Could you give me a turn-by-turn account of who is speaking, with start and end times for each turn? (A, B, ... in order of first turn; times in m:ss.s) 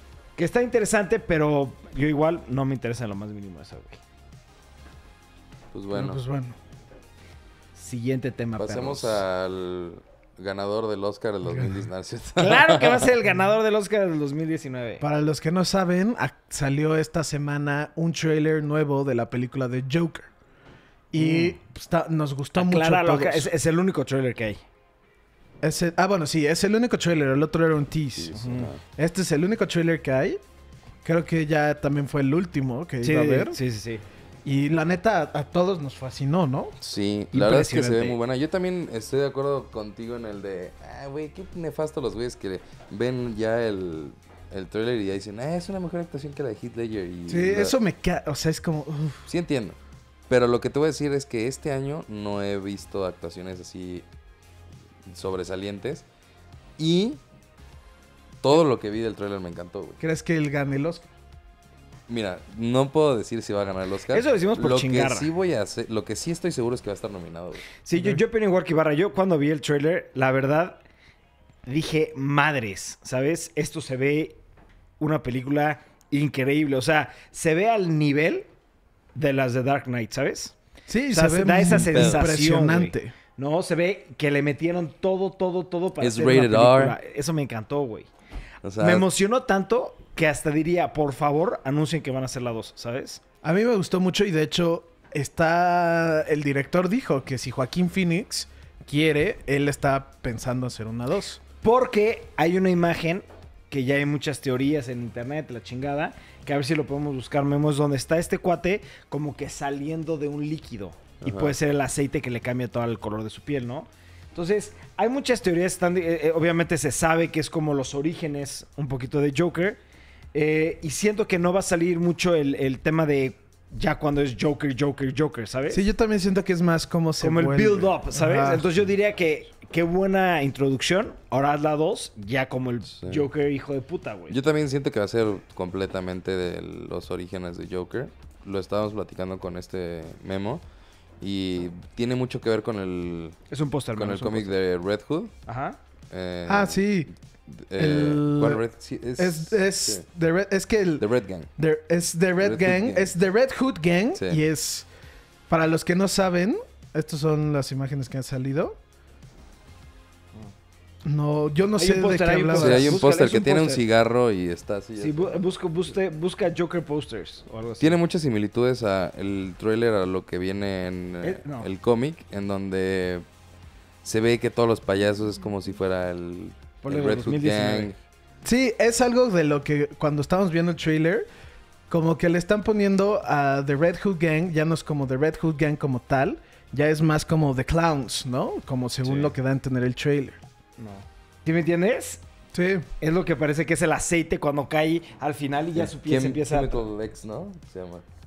0:00.4-0:04.0 A
0:05.7-0:06.2 B
0:05.9-0:06.6 C
0:07.8-0:09.2 A
0:08.6-0:13.1 B
0:11.5-0:11.8 C
0:12.4-0:15.0 A
0:15.0-0:20.3 C
0:21.1-0:23.5 C
0:21.2-0:21.6 A
0:22.6-0:24.6 A
0:25.6-0:30.4 C
0:28.2-0:28.8 B
0:28.3-0:28.7 A
0:31.0-0:33.6 C
0:33.0-0:34.0 A
0:34.4-0:36.8 C
0:36.8-0:47.7 B
0:37.3-0:38.2 A
0:47.3-0:49.2 C
0:49.2-0:49.8 B
0:50.3-0:54.0 B
0:55.1-0:56.0 B
0:56.8-0:57.2 B
0:58.4-1:00.0 B
1:00.0-1:01.1 C
1:02.1-1:07.7 B
1:04.1-1:05.3 A
1:07.8-1:10.8 A
1:11.6-1:14.4 A
1:15.0-1:18.5 A
1:19.1-1:20.5 A
1:20.9-1:23.1 C
1:21.1-1:28.1 A
1:21.9-1:22.2 B
1:26.0-1:27.0 B
1:28.6-1:29.1 B
1:28.8-1:33.2 A
1:33.4-1:41.4 C
1:41.6-1:59.8 A
1:51.2-1:51.5 B
2:00.3-2:05.8 A
2:05.7-2:08.7 C
2:07.2-2:14.4 A
2:12.9-2:13.3 B
2:14.3-2:20.6 B
2:21.2-2:23.4 B
2:23.5-2:24.5 A
2:23.9-2:25.3 B
2:25.5-2:25.8 A
2:26.1-2:26.9 B
2:26.5-2:27.1 C
2:27.6-2:30.0 B
2:27.8-2:28.6 C
2:29.2-2:31.0 C
2:31.0-2:31.5 B
2:31.6-2:34.9 C
2:32.4-2:33.1 B
2:34.1-2:34.4 B
2:35.5-2:38.8 C
2:41.0-2:43.0 C
2:41.8-2:43.8 A
2:42.5-2:45.4 B
2:45.0-2:48.0 A
2:47.8-2:53.2 B
2:51.2-2:51.7 A
2:54.0-2:57.9 B
2:56.8-2:57.9 A
2:58.4-3:01.3 C
3:01.9-3:10.4 C
3:09.0-3:09.3 A
3:10.8-3:12.2 A
3:12.5-3:12.9 C
3:13.0-3:16.9 A
3:15.7-3:18.0 B